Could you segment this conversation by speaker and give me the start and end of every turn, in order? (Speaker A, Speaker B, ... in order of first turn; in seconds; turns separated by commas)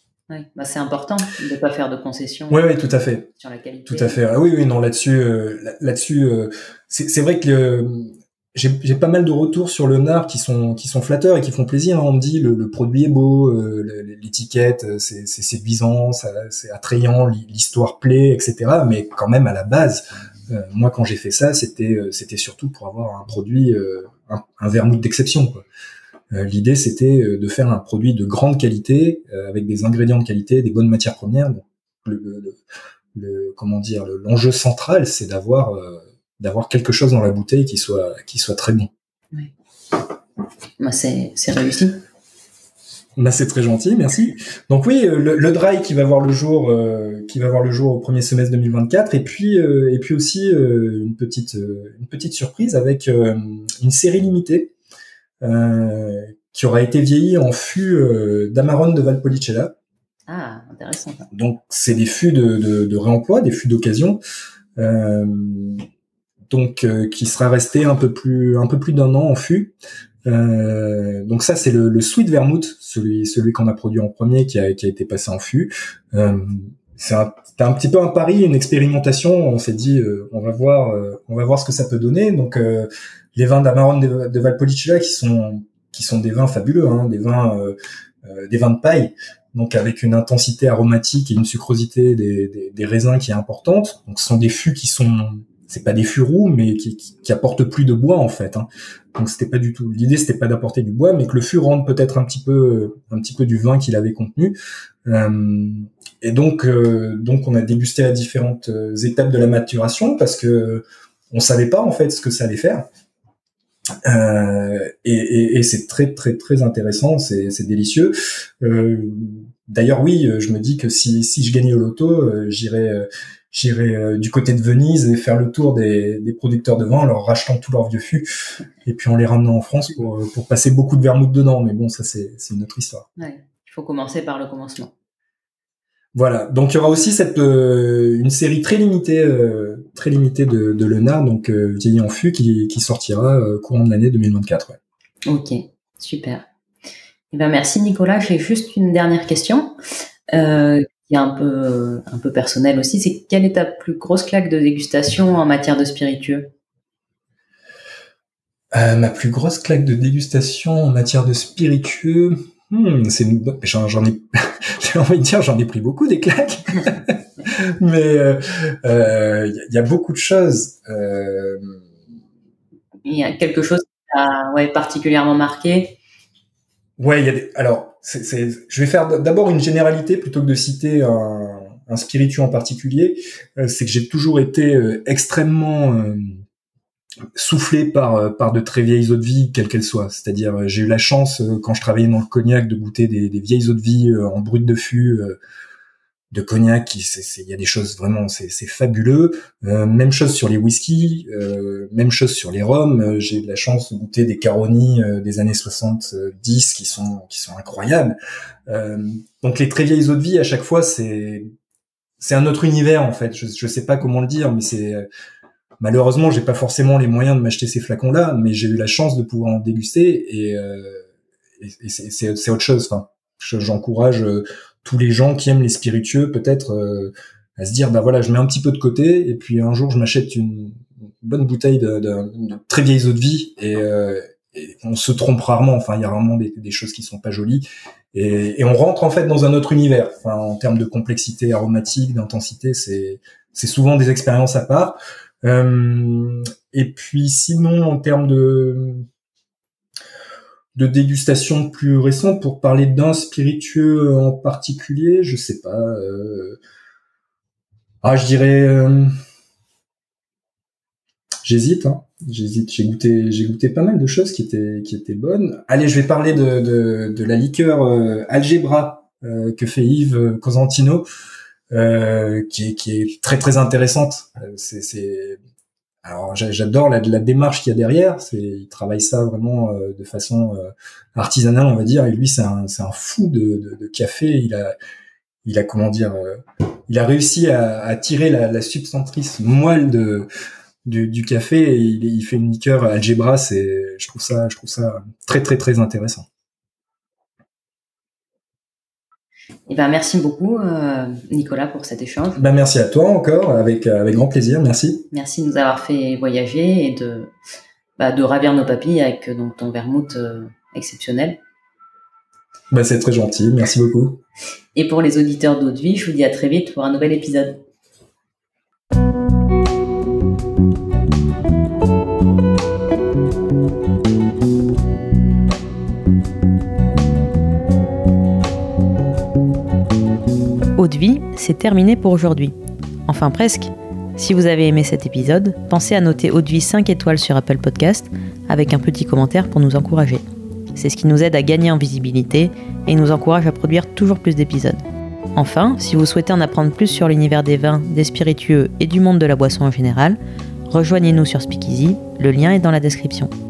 Speaker A: 0.3-2.7, Speaker B: 2.5-3.3, Speaker A: 3.4-4.2, Speaker B: 3.9-25.6, Speaker B: 26.3-32.6, Speaker B: 33.1-38.9, Speaker A: 40.8-42.0, Speaker B: 43.2-54.7, Speaker B: 55.4-59.7, Speaker A: 60.3-61.3, Speaker B: 61.3-64.2, Speaker B: 64.8-65.8, Speaker B: 66.5-112.8, Speaker B: 114.0-128.3, Speaker B: 128.8-133.1, Speaker A: 133.2-134.9, Speaker B: 136.1-144.8, Speaker A: 145.3-146.4, Speaker A: 147.3-149.7, Speaker A: 150.3-156.5, Speaker B: 158.7-171.8, Speaker A: 173.0-176.0, Speaker B: 177.0-186.4, Speaker B: 187.3-195.4, Speaker B: 196.3-208.2, Speaker B: 208.7-211.5, Speaker B: 212.2-215.1, Speaker B: 215.8-221.0, Speaker B: 221.6-249.1, Speaker B: 250.7-256.6, Speaker B: 258.0-259.1, Speaker B: 261.4-271.1, Speaker B: 271.7-275.4, Speaker B: 276.0-284.7, Speaker B: 285.4-290.3, Speaker B: 290.8-296.2, Speaker A: 299.7-302.4, Speaker B: 302.4-305.0, Speaker A: 305.1-307.3, Speaker A: 308.0-311.4, Speaker B: 312.7-314.2, Speaker A: 314.7-317.6, Speaker A: 330.8-332.6, Speaker A: 333.1-340.2, Speaker A: 340.8-344.8, Speaker A: 345.4-353.3